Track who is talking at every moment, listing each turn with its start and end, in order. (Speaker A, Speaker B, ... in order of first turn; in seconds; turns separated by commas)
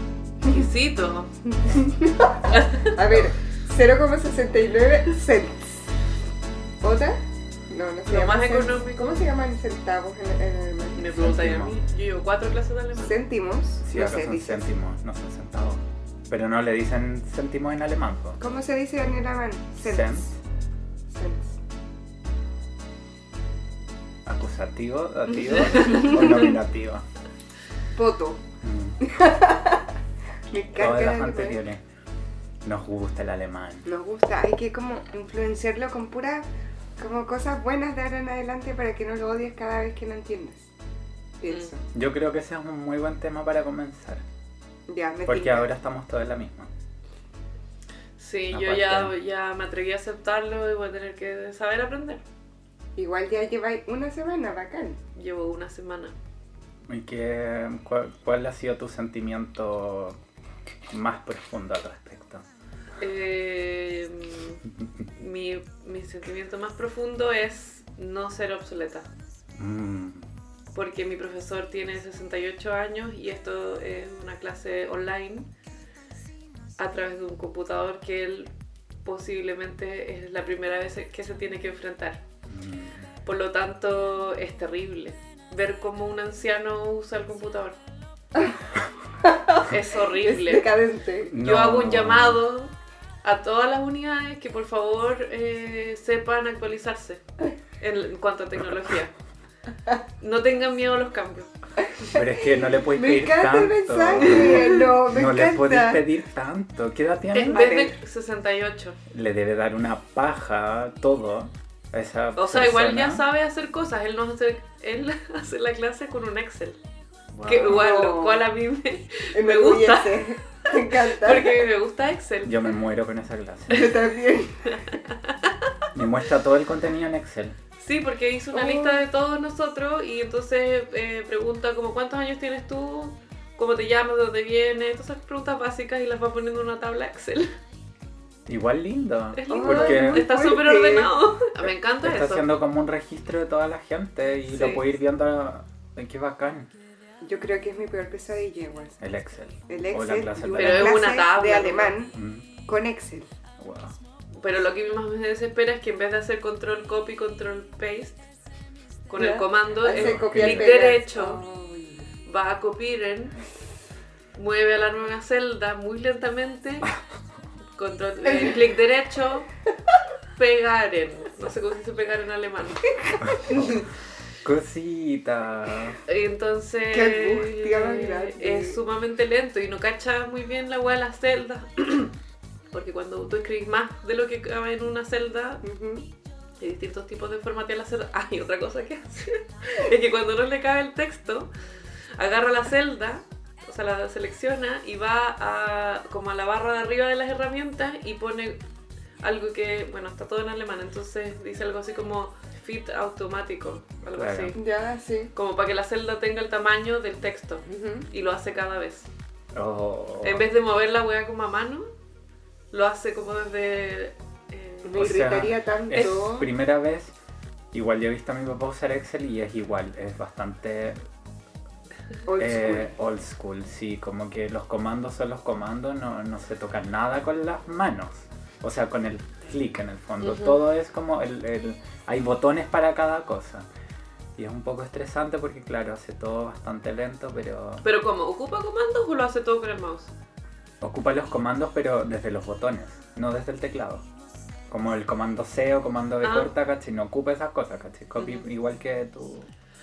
Speaker A: 0.5-1.3, Speaker B: 1.4-5.9, Speaker A: 2.5-3.3, Speaker B: 6.8-11.1, Speaker A: 8.1-9.2, Speaker A: 10.9-13.2, Speaker C: 11.1-11.8, Speaker B: 13.0-14.7, Speaker C: 13.8-18.4, Speaker B: 18.4-20.3, Speaker C: 19.8-20.4, Speaker B: 21.1-21.6, Speaker C: 24.3-27.1, Speaker A: 25.6-26.3, Speaker B: 25.7-26.6, Speaker B: 27.9-28.4, Speaker C: 28.6-29.0, Speaker B: 29.0-29.9, Speaker B: 30.5-31.6, Speaker C: 30.8-31.8, Speaker C: 32.6-33.9, Speaker B: 33.9-36.5, Speaker B: 37.0-40.7, Speaker B: 41.4-41.8, Speaker C: 41.9-44.2, Speaker B: 44.9-45.7, Speaker C: 45.3-46.7, Speaker A: 48.2-52.2, Speaker C: 48.5-49.1, Speaker B: 53.0-55.0, Speaker A: 55.1-56.1, Speaker C: 56.9-60.2, Speaker C: 60.9-62.5, Speaker A: 63.0-64.6, Speaker A: 65.2-69.1, Speaker C: 69.6-70.3, Speaker A: 70.7-75.5, Speaker A: 76.8-78.5, Speaker A: 79.0-82.2, Speaker C: 82.5-83.1, Speaker A: 83.2-87.8, Speaker B: 89.2-91.4, Speaker A: 89.6-90.7, Speaker C: 91.3-92.4, Speaker A: 91.4-97.2, Speaker A: 97.8-99.1, Speaker A: 100.2-101.5, Speaker B: 102.0-106.0, Speaker C: 102.1-107.7, Speaker A: 107.3-109.0, Speaker B: 107.5-108.0, Speaker C: 109.1-113.2, Speaker A: 112.4-116.8, Speaker C: 117.3-117.8, Speaker A: 117.5-122.7, Speaker B: 117.6-118.5, Speaker B: 119.3-121.7, Speaker C: 122.4-124.0, Speaker B: 123.7-124.9, Speaker A: 124.7-125.7, Speaker C: 125.9-127.6, Speaker A: 127.8-137.6, Speaker B: 128.5-129.1, Speaker C: 138.5-140.3, Speaker A: 139.3-142.5, Speaker B: 139.5-141.1, Speaker C: 142.0-146.7, Speaker A: 144.5-144.8, Speaker B: 147.2-149.0, Speaker C: 149.0-151.1, Speaker B: 149.7-152.2, Speaker A: 150.6-152.0, Speaker C: 152.1-152.5, Speaker B: 152.7-153.3, Speaker C: 153.6-154.0, Speaker A: 154.4-158.3, Speaker A: 159.1-161.4, Speaker B: 159.2-162.1, Speaker C: 159.9-160.8, Speaker A: 162.3-163.4, Speaker A: 164.3-166.9, Speaker A: 167.8-169.5, Speaker B: 168.2-168.7, Speaker A: 170.4-173.9, Speaker C: 173.2-173.8, Speaker C: 174.4-176.0, Speaker A: 176.1-182.1, Speaker B: 176.9-178.8, Speaker A: 182.7-185.6, Speaker B: 185.6-186.1, Speaker A: 186.6-191.5, Speaker A: 192.2-198.6, Speaker A: 199.2-204.6, Speaker C: 204.2-204.6, Speaker B: 204.6-205.3, Speaker A: 205.3-209.1, Speaker B: 207.7-208.1, Speaker C: 209.5-210.4, Speaker A: 210.2-211.9, Speaker A: 212.7-215.4, Speaker B: 214.8-216.5, Speaker C: 215.0-217.1, Speaker C: 217.7-221.0, Speaker B: 222.3-222.9, Speaker C: 222.4-233.7, Speaker A: 230.3-230.5, Speaker C: 234.4-237.9, Speaker A: 237.8-240.1, Speaker C: 240.8-244.1, Speaker C: 244.7-249.5, Speaker A: 246.2-246.5, Speaker A: 248.2-248.5